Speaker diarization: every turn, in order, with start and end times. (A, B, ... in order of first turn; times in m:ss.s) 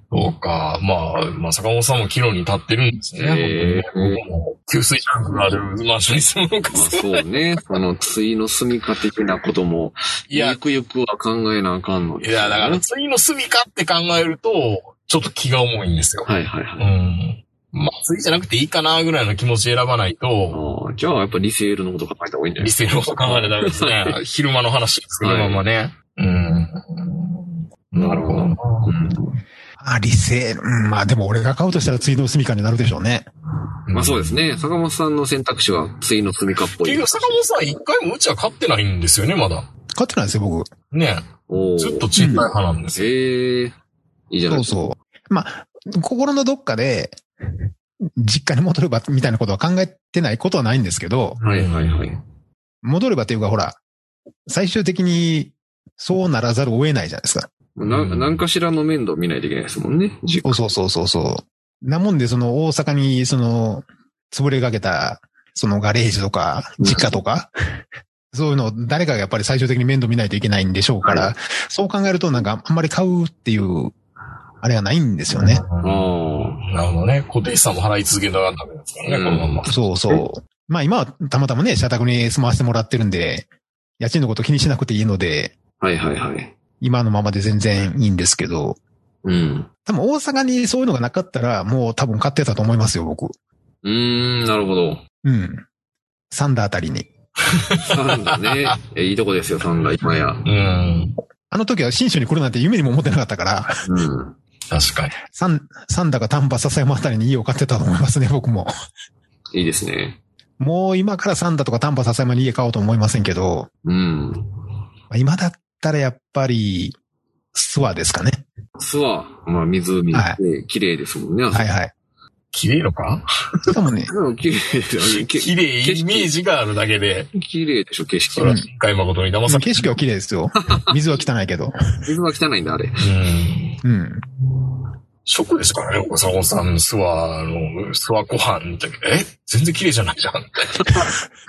0:00.1-0:07.3 A
0:03.2-0:04.2 B
0:06.7-0:12.8 B
0:10.3-0:10.6 A
0:12.2-0:20.6 A
0:16.3-0:16.9 B
0:20.5-0:24.2 B
0:22.6-0:28.9 A
0:25.2-0:25.6 B
0:28.0-0:29.4 B
0:29.8-0:33.3 C
0:33.9-0:34.4 A
0:33.9-0:37.6 B
0:36.7-0:39.7 A
0:40.0-0:40.7 C
0:40.9-0:43.1 A
0:41.5-0:43.8 B
0:42.2-0:42.5 C
0:44.3-0:44.8 B
0:44.5-0:47.2 C
0:48.2-0:51.4 C
0:51.4-0:52.1 A
0:51.4-0:52.2 B
0:52.8-0:53.8 C
0:54.5-0:57.5 C
0:57.8-1:00.6 B
0:57.8-0:58.4 A
1:00.4-1:07.5 C
1:06.8-1:07.2 B
1:08.3-1:13.9 C
1:11.0-1:11.3 B
1:14.6-1:15.6 C
1:15.4-1:19.8 A
1:15.8-1:16.6 B
1:19.1-1:20.2 B
1:19.7-1:23.5 C
1:24.0-1:25.5 C
1:25.8-1:26.5 B
1:26.8-1:28.8 C
1:29.2-1:29.7 B
1:29.9-1:33.3 C
1:33.8-1:35.0 B
1:35.2-1:35.6 C
1:36.3-1:37.1 C
1:37.5-1:38.8 A
1:37.8-1:40.4 B
1:40.0-1:41.2 A
1:41.5-1:43.8 C
1:43.9-1:44.4 B
1:44.7-1:45.2 A
1:45.3-1:48.7 C
1:49.5-1:50.2 B
1:50.6-1:53.7 C
1:53.8-1:54.6 B
1:55.1-1:57.0 C
1:57.5-1:58.4 C
1:58.8-2:01.7 B
2:00.1-2:00.4 C
2:01.5-2:01.9 C
2:02.5-2:03.2 A
2:03.7-2:04.1 C
2:04.1-2:06.3 B
2:05.1-2:07.3 A
2:07.3-2:08.6 B
2:08.3-2:10.0 A
2:09.5-2:11.8 C
2:10.6-2:10.9 B
2:12.1-2:13.1 B
2:13.0-2:13.8 A
2:13.8-2:14.2 C
2:15.2-2:21.1 A